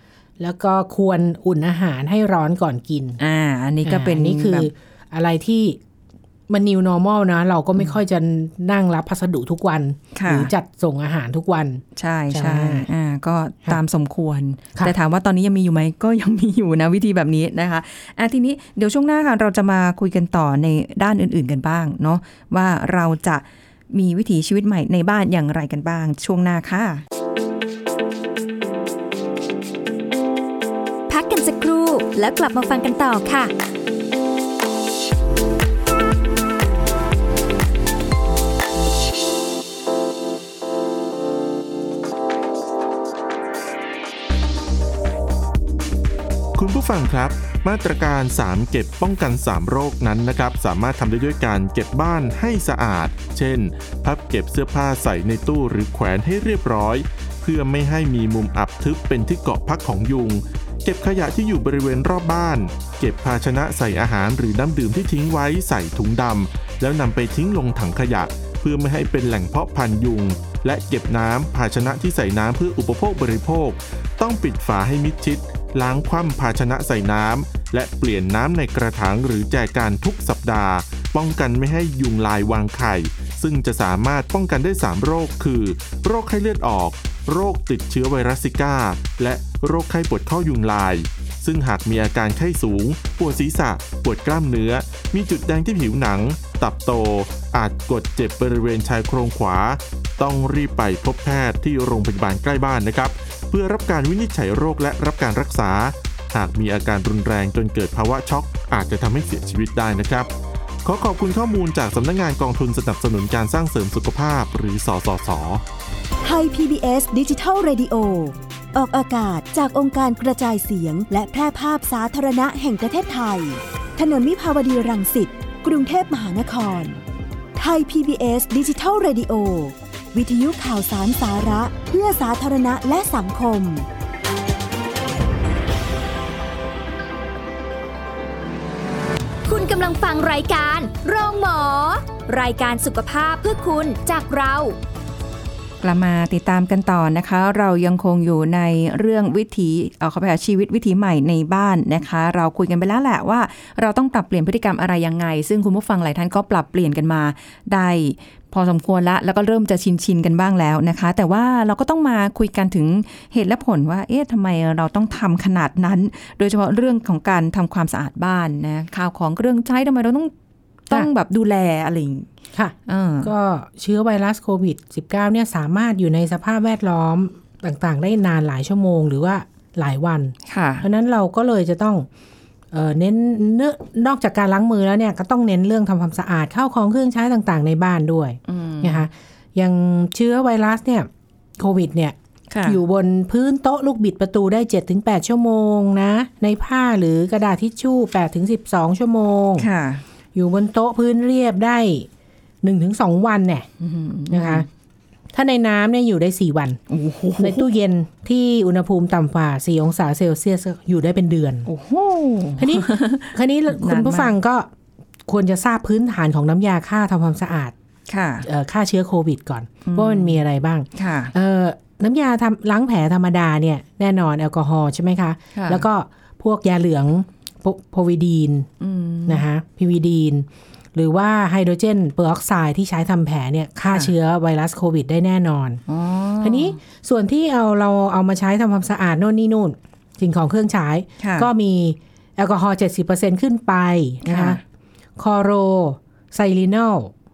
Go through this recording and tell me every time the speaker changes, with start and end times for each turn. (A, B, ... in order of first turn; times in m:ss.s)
0:00.4-0:03.2 A
0:03.2-0:04.7 B
0:03.8-0:05.8 A
0:06.5-0:12.9 A
0:10.1-0:10.5 B
0:12.0-0:27.0 B
0:31.1-0:33.5 C
0:46.6-1:50.3 D
1:50.8-1:55.6 D
1:56.2-2:07.0 E
2:07.6-2:13.9 E
2:19.5-2:24.8 C
2:25.8-2:50.3 B
2:50.9-2:52.3 B
2:52.5-3:02.1 A
2:52.9-2:53.3 B
3:00.5-3:00.9 B
3:02.7-3:12.2 A
3:08.5-3:09.1 B
3:12.5-3:12.8 B
3:12.7-3:19.7 A
3:19.6-3:20.0 B
3:20.4-3:22.1 A
3:22.6-3:23.7 A
3:23.8-3:24.7 B
3:24.3-3:24.7 A
3:25.3-3:26.8 A
3:26.9-3:27.7 B
3:27.4-3:31.7 A
3:31.7-3:34.3 B
3:32.6-3:34.7 A
3:35.3-3:37.7 A
3:38.1-3:38.5 B
3:38.4-3:48.7 A
3:39.8-3:40.4 B
3:40.9-3:41.3 B
3:45.5-3:45.8 B
3:48.8-3:49.4 B
3:49.3-3:55.8 A
3:55.9-3:56.8 B
3:56.4-4:04.6 A
4:01.2-4:01.5 B
4:04.2-4:04.6 B
4:05.2-4:07.1 A